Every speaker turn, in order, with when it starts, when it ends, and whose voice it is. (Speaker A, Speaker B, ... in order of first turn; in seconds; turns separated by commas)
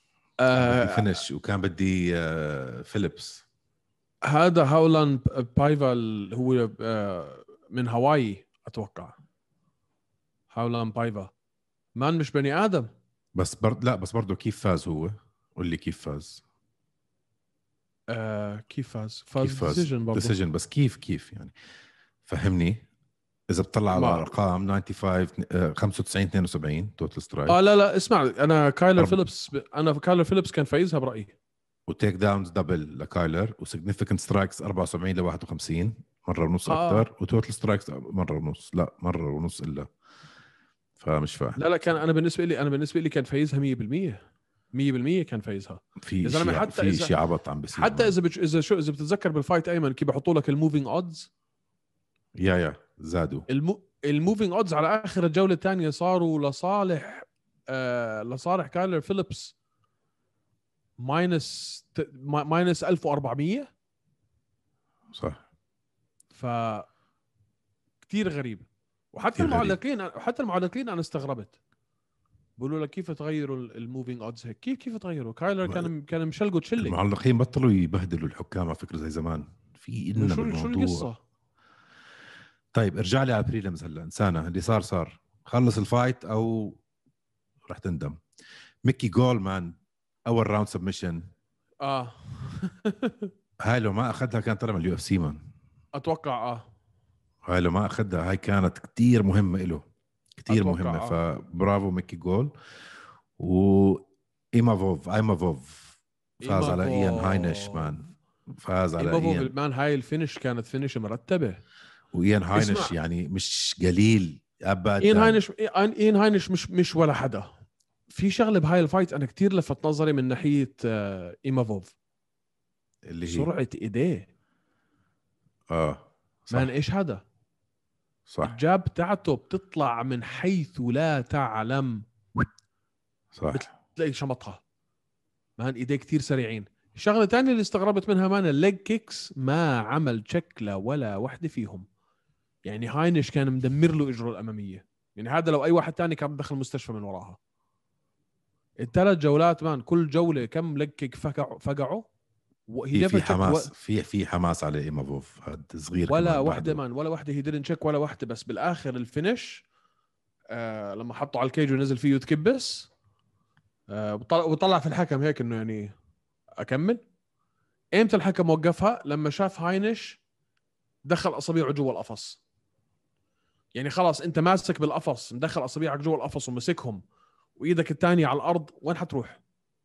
Speaker A: 0.4-1.2, Speaker B: 0.6-3.4, Speaker A: 4.3-9.2, Speaker A: 10.5-11.3, Speaker A: 11.9-12.9, Speaker B: 13.3-16.4, Speaker A: 18.1-20.4, Speaker B: 19.4-21.6, Speaker B: 22.3-22.9, Speaker B: 23.5-27.6, Speaker A: 23.9-24.3, Speaker A: 27.5-31.4, Speaker B: 31.9-39.9, Speaker A: 36.7-37.1, Speaker B: 41.0-41.6, Speaker A: 41.6-44.2, Speaker A: 44.7-47.1, Speaker B: 46.0-48.1, Speaker A: 47.7-51.3, Speaker B: 52.4-53.5, Speaker A: 53.5-59.5, Speaker A: 61.0-63.7, Speaker B: 65.1-65.4, Speaker A: 66.3-66.9, Speaker A: 68.1-71.5, Speaker B: 69.4-69.8, Speaker A: 72.6-77.0, Speaker B: 76.8-81.1, Speaker A: 80.2-81.2, Speaker B: 82.7-86.8, Speaker B: 87.7-88.2, Speaker B: 88.8-91.3, Speaker A: 91.8-93.3, Speaker B: 93.6-95.4, Speaker A: 96.0-96.6, Speaker B: 97.4-99.8, Speaker B: 100.4-102.5, Speaker A: 100.5-101.2, Speaker B: 103.4-109.5, Speaker A: 106.4-108.0, Speaker A: 109.0-111.6, Speaker B: 112.1-115.4, Speaker A: 112.5-112.9, Speaker A: 115.0-117.5, Speaker A: 118.1-121.9, Speaker B: 123.1-123.5, Speaker A: 123.2-124.3, Speaker B: 125.7-126.7, Speaker A: 126.5-127.2, Speaker B: 128.3-128.6, Speaker A: 128.4-132.0, Speaker B: 133.3-133.7, Speaker A: 133.5-134.6, Speaker A: 135.6-141.9, Speaker A: 142.7-147.4, Speaker A: 148.8-152.1, Speaker A: 152.7-153.7, Speaker B: 152.9-156.8, Speaker A: 156.1-159.6, Speaker A: 160.5-162.9, Speaker A: 163.9-165.9, Speaker A: 166.6-167.0, Speaker A: 167.9-170.2, Speaker A: 171.1-172.4, Speaker A: 173.8-177.0, Speaker A: 177.6-179.4